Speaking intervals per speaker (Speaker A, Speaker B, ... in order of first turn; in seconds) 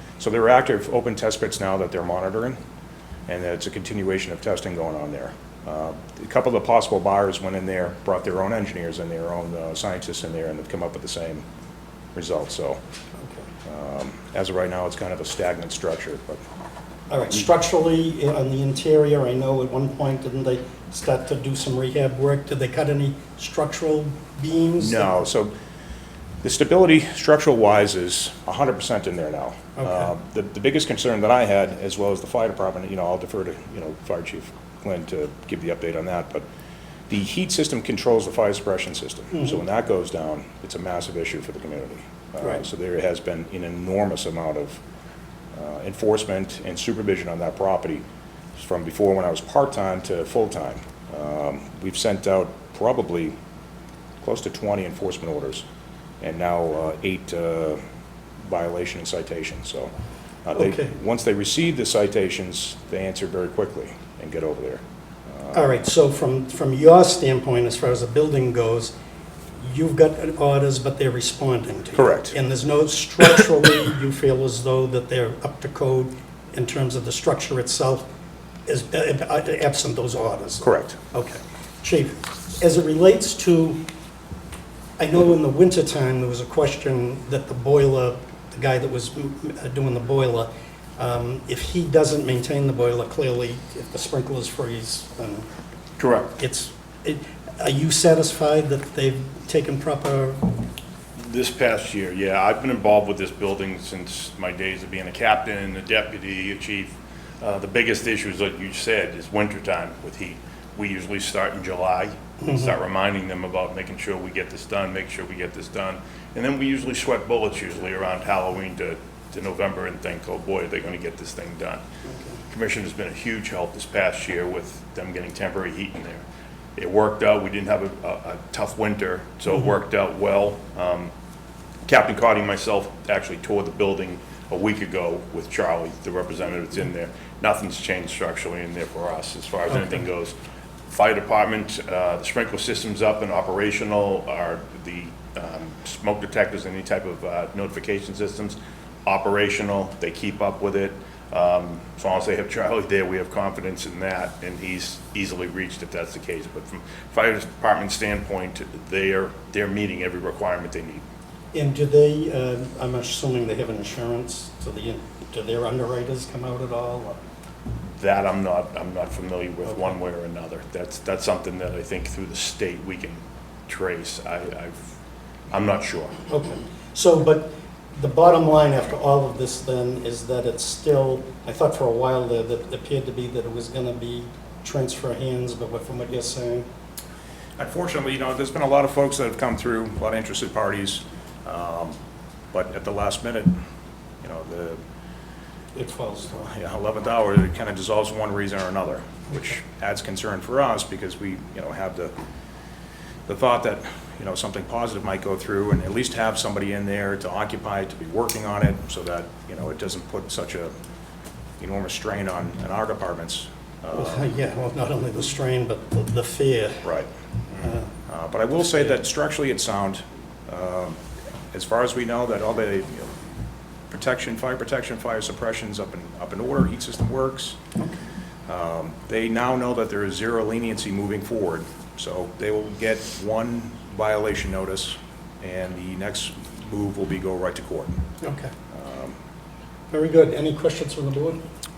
Speaker A: 0.2-2.6, 3.3-11.4, 12.2-12.8, 13.7-16.4, 24.8-25.5, 26.4-36.5, 37.1-44.8, 45.5-48.0, 48.6-53.4, 54.2-55.6, 56.2-57.8, 58.5-59.9, 60.5-65.6, 72.0-72.3, 80.6-81.0, 187.6-192.0, 192.5-193.5, 194.2-194.8, 196.5-202.1, 203.3-210.7, 211.6-214.2, 218.1-221.0, 221.5-223.1, 223.9-227.6, 228.5-238.0, 238.7-239.2
Speaker B: 13.2-13.5, 17.1-25.2, 29.8-30.1, 60.5-60.9, 65.5-68.9, 69.6-78.1, 78.7-83.8, 85.0-95.5, 96.4-100.7, 112.4-112.7, 161.5-167.2, 176.3-186.7, 195.8-196.5, 213.9-216.9, 217.6-217.9, 238.2-238.5, 239.9-241.4
Speaker C: 96.0-96.3, 101.2-121.8, 122.5-126.2, 126.8-131.1, 131.9-140.4, 140.9-161.0, 168.0-174.8, 175.5-176.2